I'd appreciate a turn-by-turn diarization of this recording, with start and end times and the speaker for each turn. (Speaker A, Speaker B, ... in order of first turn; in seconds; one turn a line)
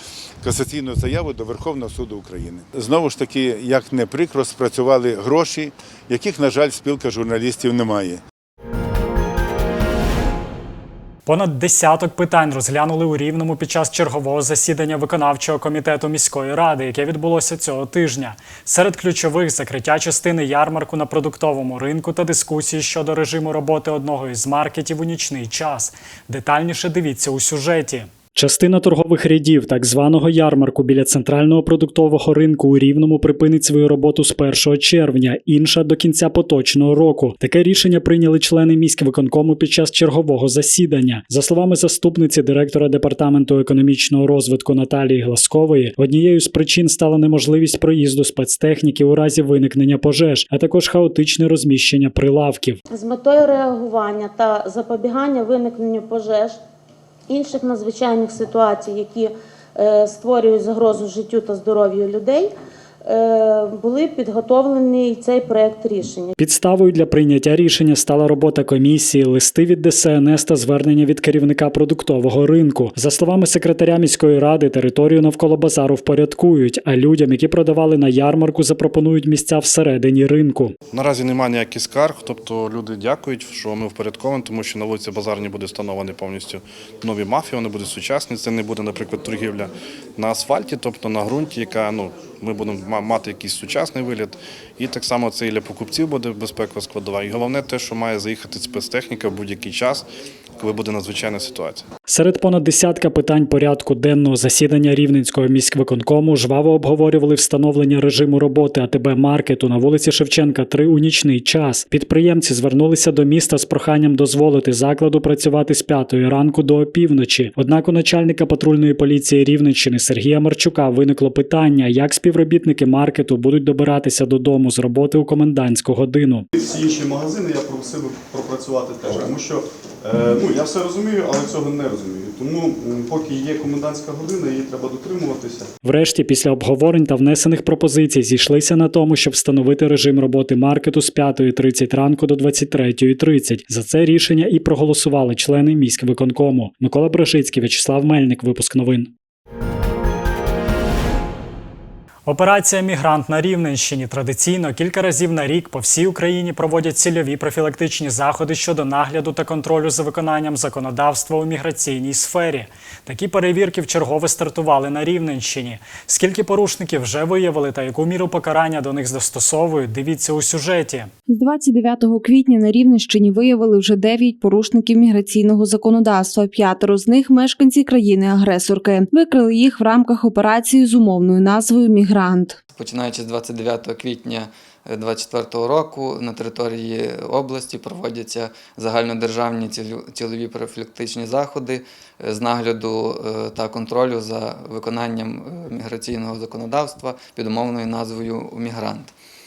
Speaker A: 0.4-8.2
Speaker B: 11.3-52.8
Speaker C: 52.9-56.6
Speaker C: 57.3-62.5
Speaker C: 63.1-66.3
Speaker B: 66.4-80.8
Speaker D: 80.9-101.9
Speaker B: 102.1-126.5
Speaker E: 126.5-135.7
Speaker B: 135.8-149.1
Speaker B: 152.3-171.1
Speaker F: 171.3-182.6
Speaker G: 182.8-199.1